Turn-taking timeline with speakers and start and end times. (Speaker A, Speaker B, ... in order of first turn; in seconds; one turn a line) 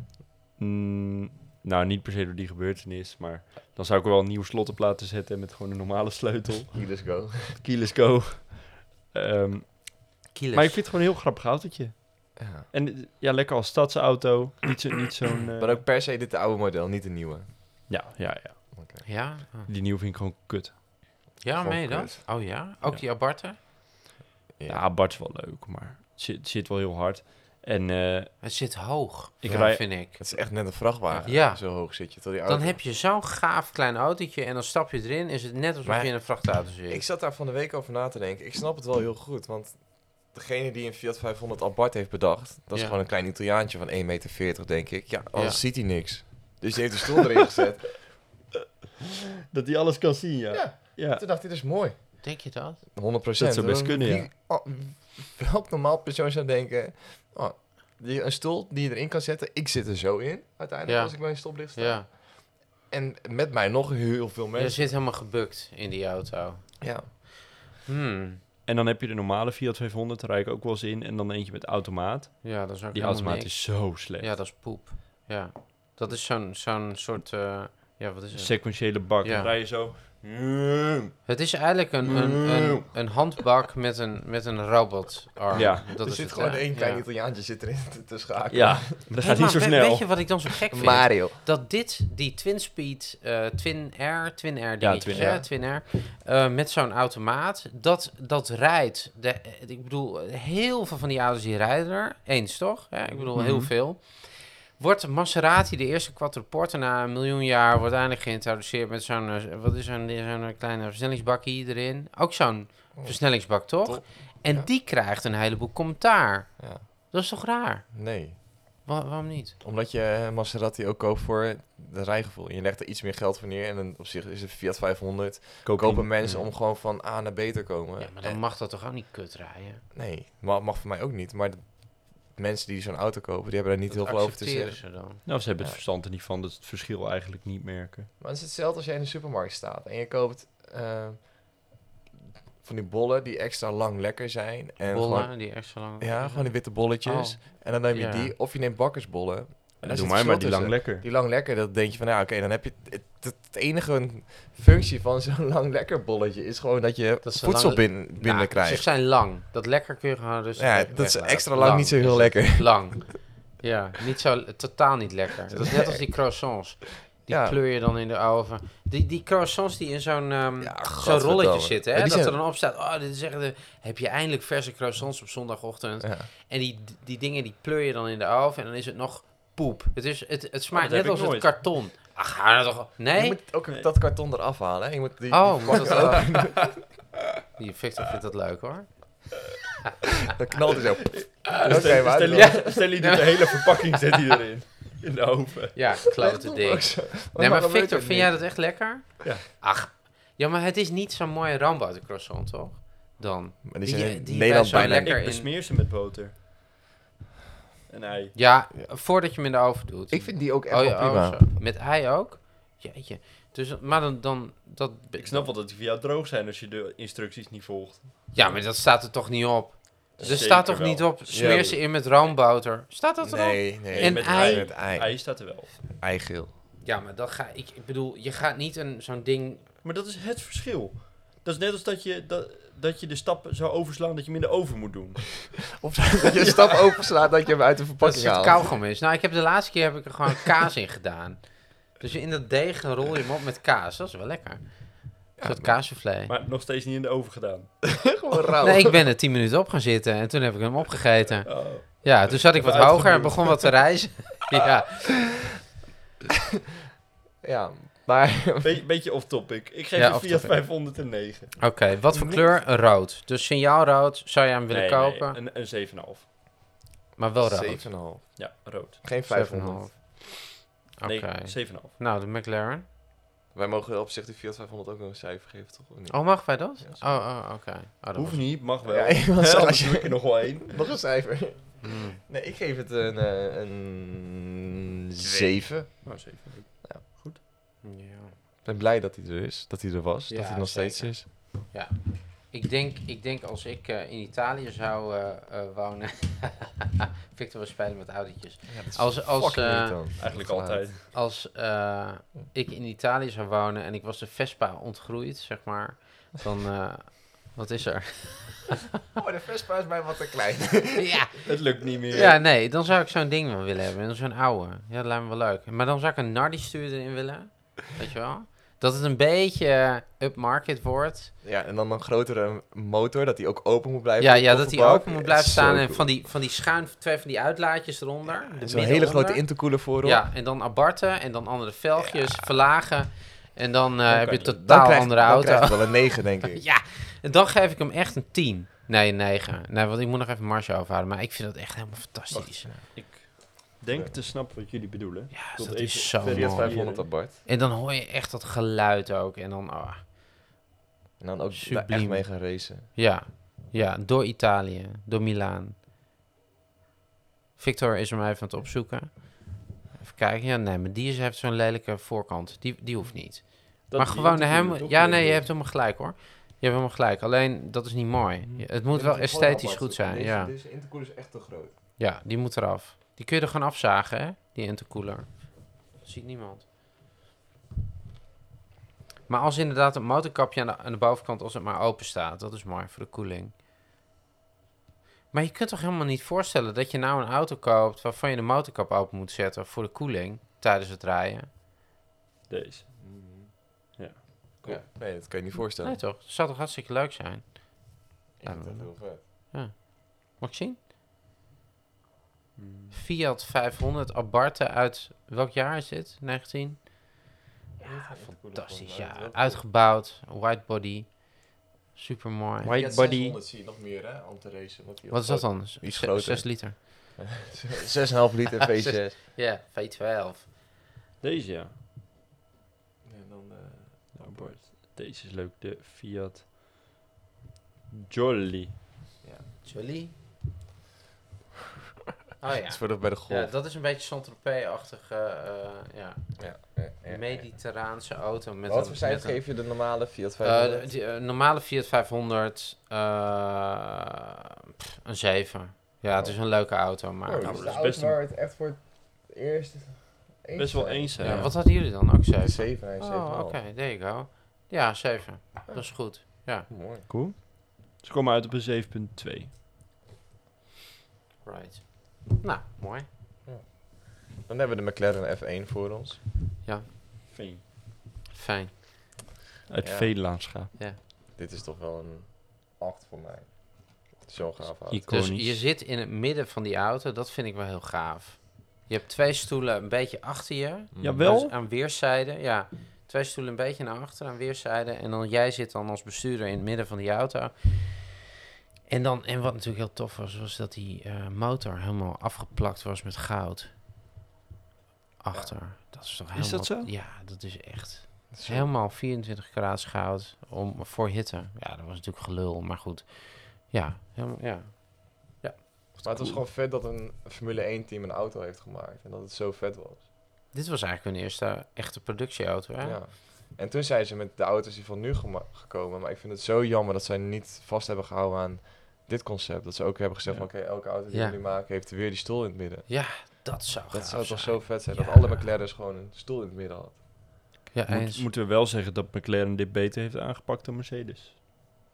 Speaker A: 0.6-6.9
Speaker B: 6.7-7.6
Speaker A: 7.6-15.8
Speaker C: 10.3-10.8
Speaker B: 12.4-12.7
Speaker B: 15.6-17.5
Speaker A: 17.9-18.8
Speaker B: 18.7-19.0
Speaker C: 19.0-19.7
Speaker A: 19.7-20.9
Speaker B: 21.4-22.2
Speaker C: 21.4-23.6
Speaker B: 24.6-24.8
Speaker A: 24.7-28.5
Speaker C: 28.4-37.0
Speaker A: 29.4-30.2
Speaker B: 29.5-32.8
Speaker B: 35.8-48.0
Speaker C: 42.7-43.0
Speaker C: 45.3-45.6
Speaker A: 49.5-51.2
Speaker B: 50.5-52.3
Speaker C: 52.2-52.8
Speaker B: 52.9-64.9
Speaker A: 53.4-54.3
Speaker C: 60.9-62.1
Speaker C: 64.5-67.2
Speaker B: 66.8-67.1
Speaker C: 67.8-68.4
Speaker A: 68.7-74.3
Speaker C: 72.4-79.5
Speaker A: 78.3-81.2
Speaker C: 81.2-87.0
Speaker A: 82.0-83.0
Speaker A: 85.5-85.9
Speaker B: 85.6-88.9
Speaker A: 88.5-90.5
Speaker C: 89.2-117.9
Speaker B: 90.7-91.4
Speaker A: 94.8-95.4
Speaker B: 95.1-95.5
Speaker A: 103.3-103.7
Speaker B: 112.9-114.7
Speaker B: 116.6-116.8
Speaker B: 117.9-118.4
Speaker C: 118.8-119.6
Speaker B: 119.6-128.4
Speaker A: 125.6-126.2
Speaker C: 126.2-126.5
Speaker C: 128.0-129.8
Speaker B: 129.9-135.8
Speaker C: 133.9-135.2
Speaker A: 135.2-138.1
Speaker B: 138.2-141.7
Speaker B: 142.6-158.8
Speaker C: 144.9-148.3
Speaker A: 149.8-151.0
Speaker C: 157.2-183.4
Speaker B: 160.6-163.1
Speaker B: 165.5-166.1
Speaker B: 167.3-167.6
Speaker B: 170.6-172.4
Speaker B: 176.0-176.3
Speaker A: 180.7-181.7
Speaker B: 183.1-186.8
Speaker C: 185.3-186.5
Speaker A: 185.8-186.6
Speaker C: 187.6-189.3
Speaker B: 190.3-193.1
Speaker A: 191.0-195.8
Speaker C: 191.6-193.7
Speaker C: 195.7-205.5
Speaker B: 196.2-198.4
Speaker B: 203.6-205.1
Speaker A: 204.7-206.4
Speaker A: 207.9-208.3
Speaker C: 208.3-215.5
Speaker B: 210.1-211.4
Speaker A: 215.2-218.6
Speaker C: 218.3-224.7
Speaker B: 220.2-220.6
Speaker A: 220.2-221.8
Speaker B: 221.3-221.8
Speaker B: 223.2-226.5
Speaker A: 223.9-225.8
Speaker C: 226.8-229.7
Speaker A: 229.8-235.7
Speaker B: 235.8-238.7
Speaker A: 236.3-237.0
Speaker C: 238.0-246.3
Speaker B: 245.4-245.8
Speaker A: 246.3-247.8
Speaker B: 247.9-249.0
Speaker C: 248.6-255.4
Speaker A: 251.4-253.8
Speaker B: 257.4-258.8
Speaker A: 258.6-261.6
Speaker C: 260.0-260.6
Speaker C: 261.6-265.4
Speaker B: 262.1-262.6
Speaker A: 264.7-266.3
Speaker C: 267.1-267.9
Speaker B: 267.4-269.9
Speaker A: 268.4-269.0
Speaker C: 269.2-270.4
Speaker C: 271.0-272.8
Speaker A: 271.0-271.9
Speaker B: 273.5-277.2
Speaker C: 276.1-278.5
Speaker A: 278.1-280.8
Speaker B: 278.8-287.0
Speaker C: 281.8-282.2
Speaker A: 285.2-287.4
Speaker C: 287.8-288.3
Speaker B: 288.6-291.3
Speaker C: 290.3-300.0
Speaker B: 298.7-300.9
Speaker A: 300.2-301.0
Speaker C: 301.1-308.7
Speaker B: 309.1-311.2
Speaker C: 310.9-321.3
Speaker A: 311.4-312.4
Speaker B: 312.0-312.4
Speaker B: 321.4-326.1
Speaker C: 324.2-342.7
Speaker B: 328.5-330.2
Speaker B: 332.0-332.3
Speaker A: 334.1-334.4
Speaker B: 334.4-336.6
Speaker A: 342.3-347.0
Speaker C: 345.3-350.0
Speaker B: 346.2-347.4
Speaker B: 351.2-352.9
Speaker C: 351.5-355.7
Speaker C: 357.6-370.5
Speaker A: 363.9-365.5
Speaker B: 368.5-371.7
Speaker C: 372.0-376.6
Speaker C: 379.3-383.5
Speaker C: 385.3-391.5
Speaker A: 392.5-392.9
Speaker B: 393.0-393.5
Speaker A: 393.9-394.8
Speaker B: 394.6-396.0
Speaker C: 394.7-400.8
Speaker B: 398.4-399.2
Speaker A: 402.6-403.0
Speaker C: 402.9-407.2
Speaker B: 407.8-409.6
Speaker C: 407.8-412.7
Speaker A: 412.6-413.4
Speaker B: 412.7-419.2
Speaker C: 415.1-416.8
Speaker C: 418.6-420.5
Speaker A: 421.2-421.7
Speaker B: 423.0-424.6
Speaker A: 424.1-426.5
Speaker A: 427.9-428.8
Speaker C: 429.6-430.1
Speaker C: 432.4-436.4
Speaker B: 432.7-433.5
Speaker B: 436.4-437.6
Speaker C: 437.0-439.4
Speaker B: 438.6-440.9
Speaker C: 440.4-444.1
Speaker C: 444.8-447.8
Speaker B: 446.1-453.6
Speaker A: 447.4-448.2
Speaker A: 450.6-451.5
Speaker C: 451.2-456.7
Speaker B: 455.6-455.9
Speaker B: 456.7-457.1
Speaker A: 457.1-459.5
Speaker C: 461.4-463.1
Speaker B: 463.4-466.2
Speaker A: 467.3-467.6
Speaker C: 468.3-468.8
Speaker A: 469.7-470.7
Speaker B: 469.8-470.1
Speaker B: 471.3-475.1
Speaker A: 474.9-475.6
Speaker C: 475.1-488.2
Speaker B: 480.9-481.3
Speaker A: 481.0-481.5
Speaker C: 488.9-493.7
Speaker C: 495.2-505.6
Speaker A: 496.3-496.9
Speaker B: 498.3-498.7
Speaker A: 506.0-506.4
Speaker B: 506.0-510.1
Speaker C: 510.5-513.0
Speaker B: 512.8-527.0
Speaker C: 521.1-521.4
Speaker C: 522.9-525.5
Speaker C: 527.7-528.3
Speaker A: 527.9-531.4